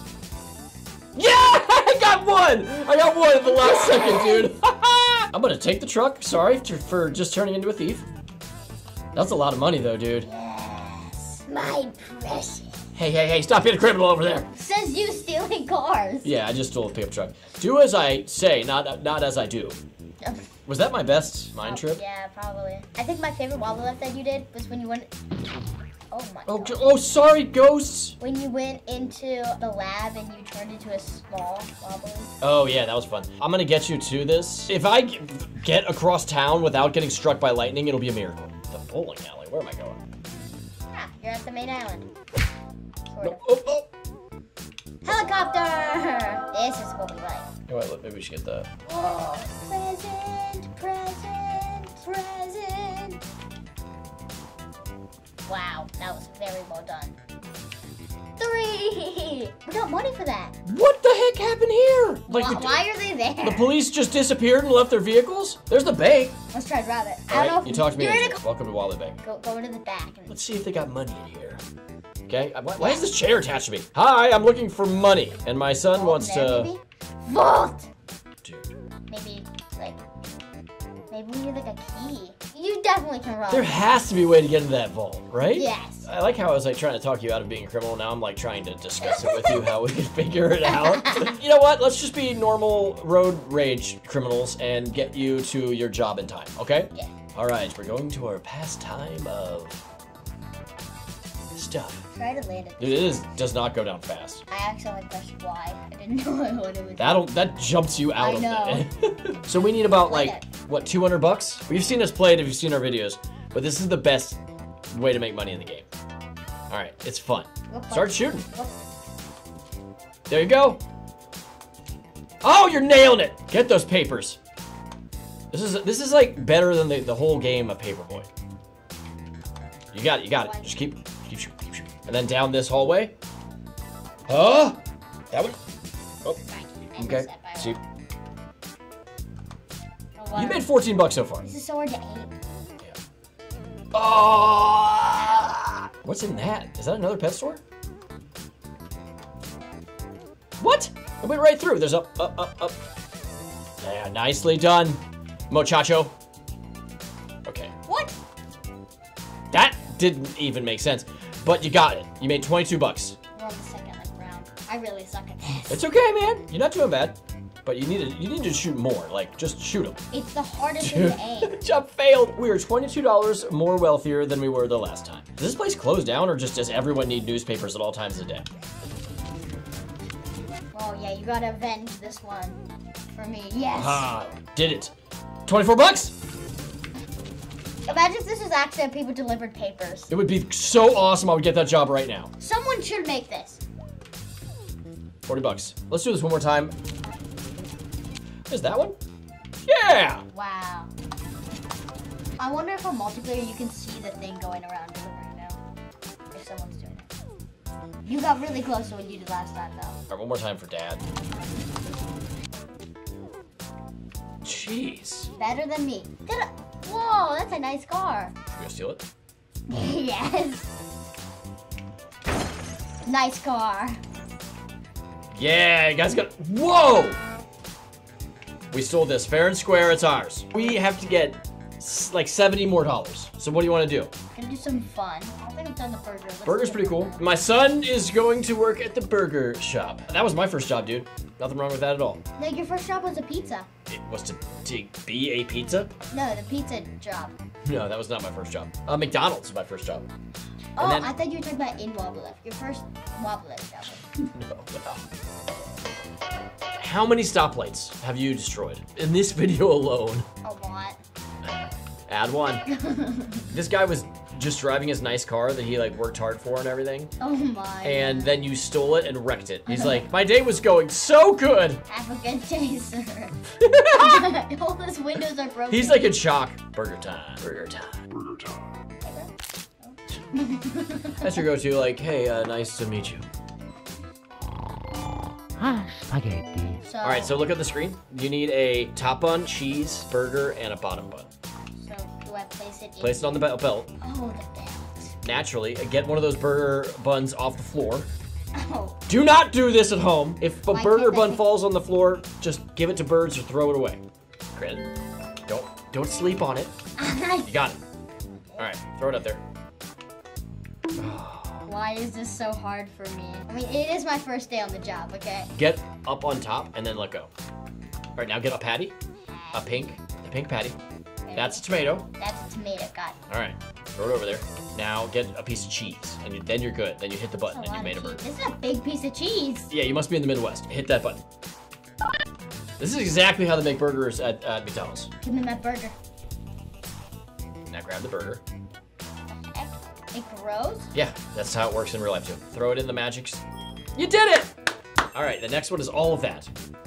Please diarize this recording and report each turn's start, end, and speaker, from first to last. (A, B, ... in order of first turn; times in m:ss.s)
0:01.2-0:08.0 A
0:03.4-0:04.5 B
0:09.1-0:10.3 A
0:10.2-0:12.8 B
0:12.9-0:14.5 A
0:14.5-0:16.3 B
0:16.2-0:19.8 A
0:20.2-0:20.5 B
0:20.7-0:22.0 A
0:21.6-0:25.1 B
0:26.1-0:26.8 B
0:26.5-0:28.2 A
0:28.2-0:32.3 B
0:32.4-0:40.0 A
0:40.9-0:42.1 B
0:43.1-0:43.5 B
0:43.2-0:43.9 A
0:45.0-0:47.5 B
0:47.7-0:48.7 A
0:48.9-0:53.2 B
0:55.4-0:57.2 B
0:58.4-1:00.6 B
1:00.6-1:02.8 A
1:02.3-1:03.7 B
1:03.4-1:06.4 A
1:06.5-1:08.4 B
1:07.3-1:09.2 A
1:09.2-1:10.4 B
1:10.3-1:11.6 A
1:12.3-1:16.7 A
1:12.8-1:13.1 B
1:15.9-1:17.9 B
1:18.4-1:18.7 A
1:19.1-1:20.0 B
1:21.1-1:23.8 B
1:23.5-1:39.8 A
1:25.5-1:26.1 B
1:29.0-1:29.7 B
1:30.6-1:31.4 B
1:41.5-1:42.0 A
1:42.1-1:43.3 B
1:42.8-1:44.4 A
1:44.5-1:47.3 B
1:47.0-1:54.4 A
1:48.2-1:48.9 B
1:49.8-1:50.5 B
1:54.9-1:55.9 A
1:56.7-1:58.5 A
1:57.7-1:58.8 B
2:00.3-2:00.8 A
2:02.4-2:04.4 A
2:05.5-2:08.3 A
2:09.9-2:13.1 A
2:10.3-2:10.7 B
2:14.3-2:14.8 A
2:16.4-2:17.8 B
2:17.0-2:17.8 A
2:20.2-2:20.7 B
2:20.4-2:21.4 A
2:21.4-2:22.4 B
2:23.9-2:27.6 A
2:30.6-2:32.8 A
2:33.8-2:35.0 A
2:35.5-2:36.1 A
2:37.4-2:37.7 A
2:37.8-2:38.1 B
2:39.5-2:43.2 A
2:43.3-2:45.8 B
2:45.7-2:50.0 A
2:50.1-2:51.6 B
2:50.8-2:58.4 A
3:00.7-3:04.1 B
3:03.7-3:04.9 A
3:05.4-3:06.1 A
3:07.8-3:10.1 B
3:10.1-3:12.3 A
3:12.4-3:13.6 B
3:15.3-3:16.7 A
3:18.5-3:19.0 A
3:19.6-3:20.2 A
3:20.3-3:20.9 B
3:22.4-3:25.6 B
3:26.3-3:27.1 B
3:28.0-3:30.0 B
3:30.1-3:31.0 A
3:34.4-3:35.3 A
3:35.4-3:38.3 B
3:38.5-3:39.0 A
3:39.7-3:40.7 B
3:43.0-3:44.0 B
3:45.3-3:47.2 A
3:48.7-3:54.1 A
3:54.3-3:57.2 B
3:56.4-4:02.2 A
4:02.4-4:03.7 B
4:03.9-4:05.9 A
4:06.1-4:07.3 B
4:07.6-4:10.1 A
4:10.8-4:14.0 B
4:10.8-4:11.1 A
4:14.2-4:15.0 A
4:16.7-4:20.2 A
4:20.4-4:21.0 B
4:22.1-4:22.6 A
4:22.6-4:23.5 B
4:23.5-4:27.1 A
4:27.2-4:28.3 B
4:27.8-4:31.8 A
4:29.6-4:30.0 B
4:31.9-4:33.4 B
4:33.6-4:34.3 A
4:33.9-4:36.2 B
4:35.7-4:38.6 A
4:39.0-4:41.4 B
4:41.2-4:43.2 A
4:46.8-4:47.4 B
4:47.0-4:51.3 A
4:51.8-4:53.4 B
4:53.0-4:53.9 A
4:54.0-4:55.2 B
4:55.2-4:58.1 A
4:58.5-4:59.0 B
4:59.1-5:04.0 A
5:00.7-5:01.5 B
5:04.5-5:04.8 A
5:05.5-5:06.7 A
5:07.0-5:07.5 B
5:07.5-5:07.8 A
5:08.3-5:08.7 B
5:08.6-5:09.4 A
5:11.0-5:11.7 A
5:11.6-5:15.5 B
5:15.6-5:17.3 A
5:18.2-5:18.9 A
5:19.3-5:19.9 B
5:19.5-5:20.8 A
5:21.2-5:21.6 B
5:21.3-5:22.0 A
5:22.2-5:23.2 B
5:23.3-5:28.2 A
5:27.5-5:29.7 B
5:29.7-5:31.2 A
5:32.8-5:35.1 A
5:35.2-5:35.9 B
5:37.7-5:38.4 A
5:39.4-5:40.9 B
5:40.9-5:43.4 A
5:44.0-5:44.5 A
5:45.1-5:46.5 A